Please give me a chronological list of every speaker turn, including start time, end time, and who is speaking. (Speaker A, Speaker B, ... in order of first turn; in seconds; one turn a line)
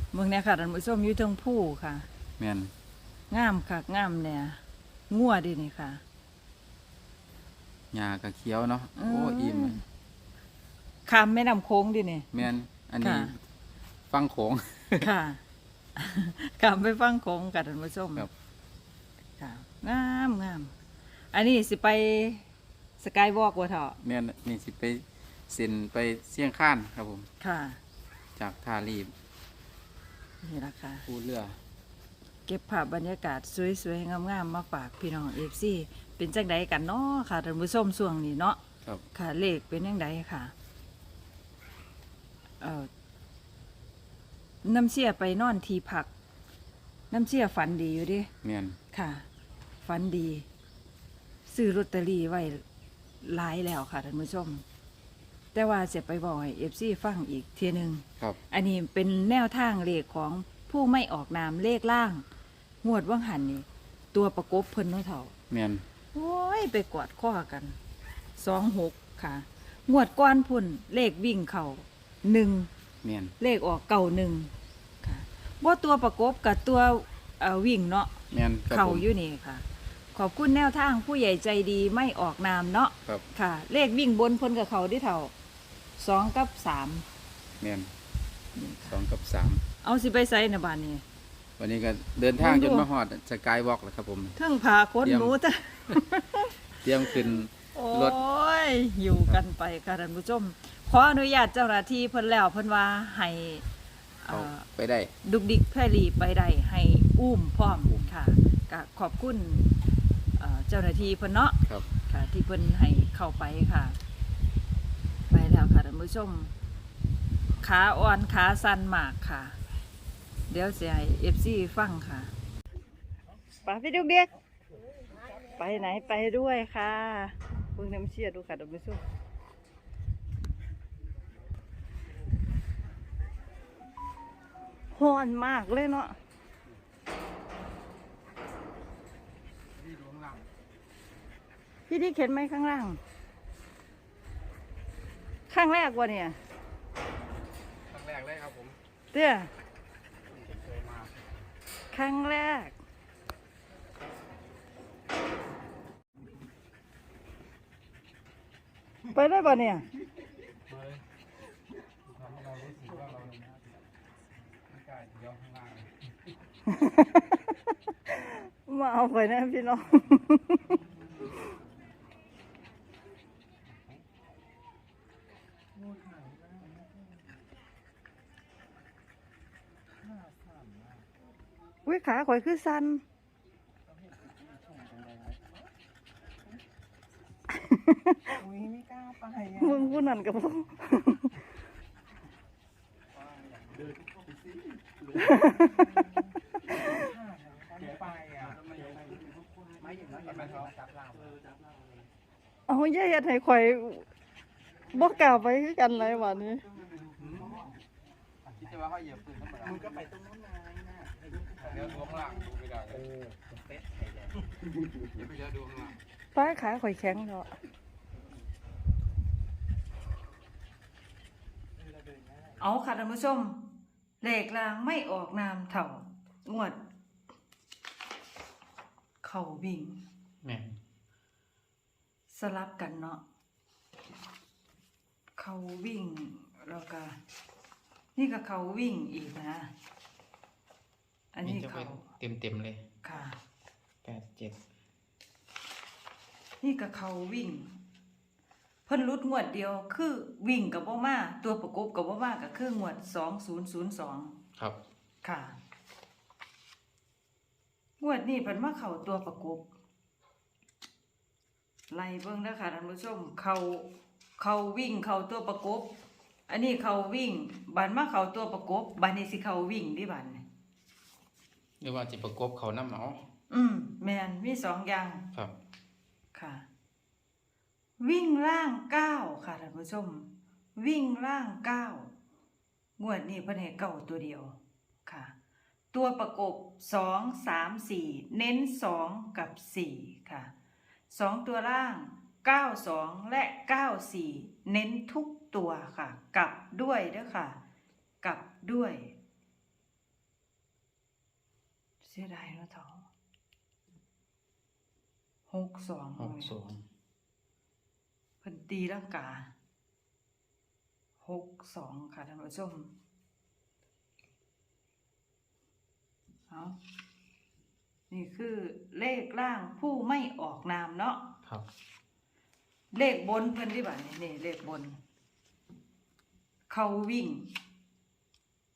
Speaker A: 0.1-2.1
Speaker B: 2.4-2.7
Speaker A: 3.3-6.0
Speaker B: 7.9-9.8
Speaker A: 8.9-9.8
Speaker A: 11.1-12.4
Speaker B: 12.3-13.4
Speaker A: 13.0-13.3
Speaker B: 14.1-15.1
Speaker A: 15.0-15.4
Speaker A: 15.9-18.3
Speaker A: 19.4-20.7
Speaker A: 21.3-22.4
Speaker A: 23.0-24.0
Speaker B: 24.0-27.3
Speaker A: 27.4-27.8
Speaker B: 28.4-29.1
Speaker A: 30.4-31.1
Speaker B: 31.1-31.6
Speaker A: 32.5-38.6
Speaker A: 39.1-40.5
Speaker A: 42.6-42.9
Speaker A: 44.6-46.1
Speaker A: 47.1-48.3
Speaker B: 48.4-48.8
Speaker A: 48.9-49.2
Speaker A: 49.8-50.5
Speaker A: 51.5-52.6
Speaker A: 53.2-54.6
Speaker A: 55.5-62.2
Speaker A: 62.8-65.3
Speaker B: 65.5-65.8
Speaker A: 66.1-67.8
Speaker A: 68.4-72.7
Speaker B: 73.0-73.3
Speaker A: 73.4-74.5
Speaker A: 75.0-78.1
Speaker B: 78.3-79.0
Speaker A: 78.7-85.3
Speaker A: 86.0-87.0
Speaker B: 87.6-87.9
Speaker A: 88.5-89.0
Speaker B: 88.8-89.6
Speaker A: 89.8-91.0
Speaker B: 91.6-94.3
Speaker A: 92.4-92.9
Speaker A: 94.3-103.6
Speaker B: 95.0-95.4
Speaker B: 96.8-98.2
Speaker A: 104.2-104.7
Speaker B: 104.3-105.1
Speaker A: 105.2-109.7
Speaker B: 107.8-108.1
Speaker A: 110.4-114.0
Speaker A: 115.3-116.5
Speaker A: 117.6-119.5
Speaker A: 120.5-122.3
Speaker A: 123.6-124.3
Speaker A: 125.4-129.0
Speaker A: 134.9-136.2
Speaker B: 139.8-140.4
Speaker A: 141.9-143.0
Speaker A: 145.5-146.4
Speaker B: 147.9-148.8
Speaker A: 149.1-149.5
Speaker B: 150.3-151.2
Speaker A: 151.9-152.8
Speaker A: 159.1-159.8
Speaker B: 162.2-163.3
Speaker B: 164.8-165.8
Speaker A: 166.7-170.8
Speaker C: 175.8-176.6
Speaker C: 180.1-181.0
Speaker A: 181.8-183.0
Speaker C: 184.7-185.4
Speaker A: 187.5-188.5
Speaker C: 188.5-189.5
Speaker A: 189.5-191.3
Speaker A: 195.2-196.1
Speaker A: 196.7-197.1
Speaker C: 197.3-198.5
Speaker C: 199.8-201.1
Speaker B: 200.3-200.7
Speaker A: 202.7-204.1
Speaker A: 204.9-206.7
Speaker B: 207.2-207.6
Speaker B: 208.6-209.9
Speaker C: 209.7-211.8
Speaker B: 211.6-213.1
Speaker B: 215.1-215.9
Speaker A: 216.3-217.5
Speaker A: 222.6-223.7
Speaker A: 224.2-226.8
Speaker A: 229.2-230.0
Speaker B: 230.4-230.7
Speaker A: 232.3-233.2
Speaker A: 235.4-237.2
Speaker A: 238.2-239.7
Speaker A: 241.3-242.1
Speaker B: 241.4-242.8
Speaker A: 243.0-243.4
Speaker B: 244.0-244.6
Speaker A: 246.6-247.7
Speaker A: 248.8-254.3
Speaker A: 255.2-255.6
Speaker A: 258.0-259.6
Speaker A: 261.9-265.9
Speaker A: 266.5-270.4
Speaker B: 271.8-273.2
Speaker A: 273.5-275.2
Speaker A: 276.3-276.6
Speaker A: 278.0-282.1
Speaker A: 283.0-285.3
Speaker A: 285.9-290.5
Speaker A: 291.1-297.6
Speaker A: 298.2-299.1
Speaker A: 302.0-303.1
Speaker A: 305.5-306.5
Speaker B: 306.2-306.8
Speaker A: 308.4-309.5
Speaker A: 311.2-312.9
Speaker A: 316.5-316.8
Speaker A: 318.1-321.3
Speaker A: 322.9-325.0
Speaker A: 326.7-327.5